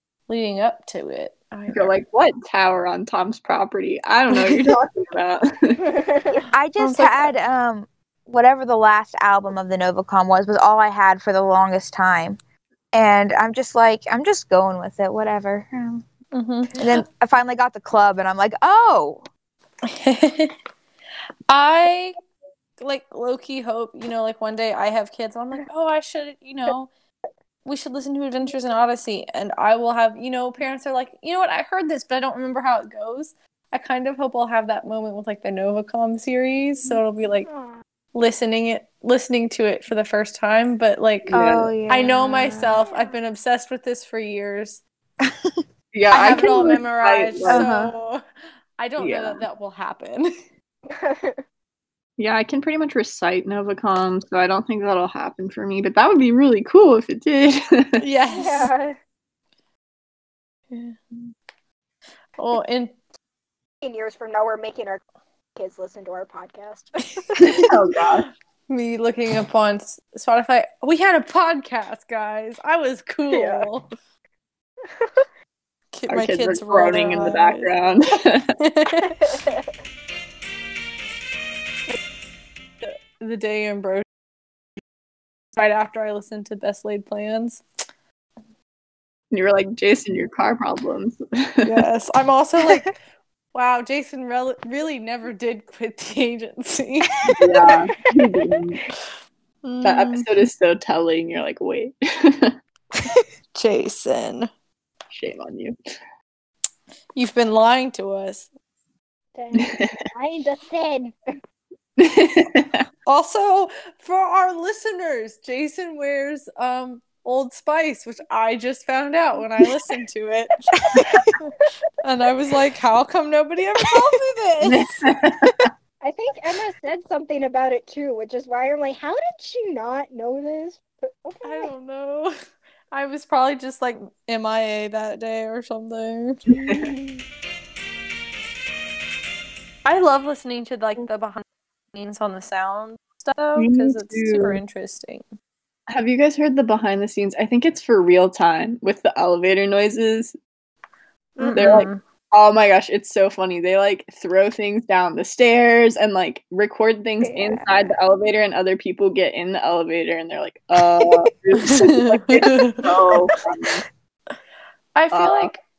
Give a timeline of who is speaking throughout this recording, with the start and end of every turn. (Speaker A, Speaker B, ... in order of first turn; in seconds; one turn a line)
Speaker A: 0.3-1.9
Speaker B: 1.7-5.8
Speaker C: 5.8-6.4
Speaker D: 6.5-12.4
Speaker A: 6.8-7.3
Speaker D: 12.9-16.0
Speaker A: 16.3-17.0
Speaker D: 16.7-19.3
Speaker A: 19.9-20.5
Speaker A: 21.5-22.1
Speaker A: 22.8-26.9
Speaker A: 27.6-37.5
Speaker C: 37.0-37.8
Speaker A: 38.1-41.4
Speaker B: 41.3-41.7
Speaker D: 41.3-42.8
Speaker A: 41.9-44.8
Speaker C: 42.8-43.1
Speaker B: 45.9-47.9
Speaker A: 46.1-48.2
Speaker A: 48.8-50.3
Speaker B: 49.0-49.4
Speaker C: 50.9-51.4
Speaker B: 52.2-58.0
Speaker A: 58.0-58.7
Speaker C: 58.3-59.0
Speaker A: 60.7-61.3
Speaker A: 62.4-63.0
Speaker C: 63.8-65.0
Speaker C: 65.5-67.2
Speaker B: 67.4-68.3
Speaker A: 68.7-73.9
Speaker A: 75.9-77.7
Speaker B: 76.1-78.5
Speaker A: 78.6-79.4
Speaker C: 79.2-79.6
Speaker A: 82.8-84.0
Speaker A: 85.5-87.6
Speaker B: 89.3-91.8
Speaker A: 91.6-92.9
Speaker A: 93.5-97.2
Speaker B: 97.4-98.8
Speaker A: 99.6-100.3
Speaker B: 99.8-102.5
Speaker A: 103.5-104.5
Speaker B: 105.1-105.8
Speaker A: 107.1-108.5
Speaker C: 109.3-111.2
Speaker B: 109.5-109.9
Speaker B: 112.0-112.8
Speaker A: 113.0-121.3
Speaker C: 121.0-121.3
Speaker A: 122.0-124.9
Speaker B: 124.6-125.7
Speaker C: 126.0-131.7
Speaker A: 131.4-132.3
Speaker A: 132.9-136.4
Speaker B: 136.5-136.9
Speaker C: 136.7-137.2
Speaker A: 139.8-145.2
Speaker B: 143.6-144.6
Speaker B: 145.9-150.3
Speaker A: 151.4-152.0
Speaker B: 151.5-163.8
Speaker C: 157.2-157.6
Speaker A: 161.6-162.8
Speaker C: 163.1-163.4
Speaker A: 164.9-165.6
Speaker B: 165.1-165.5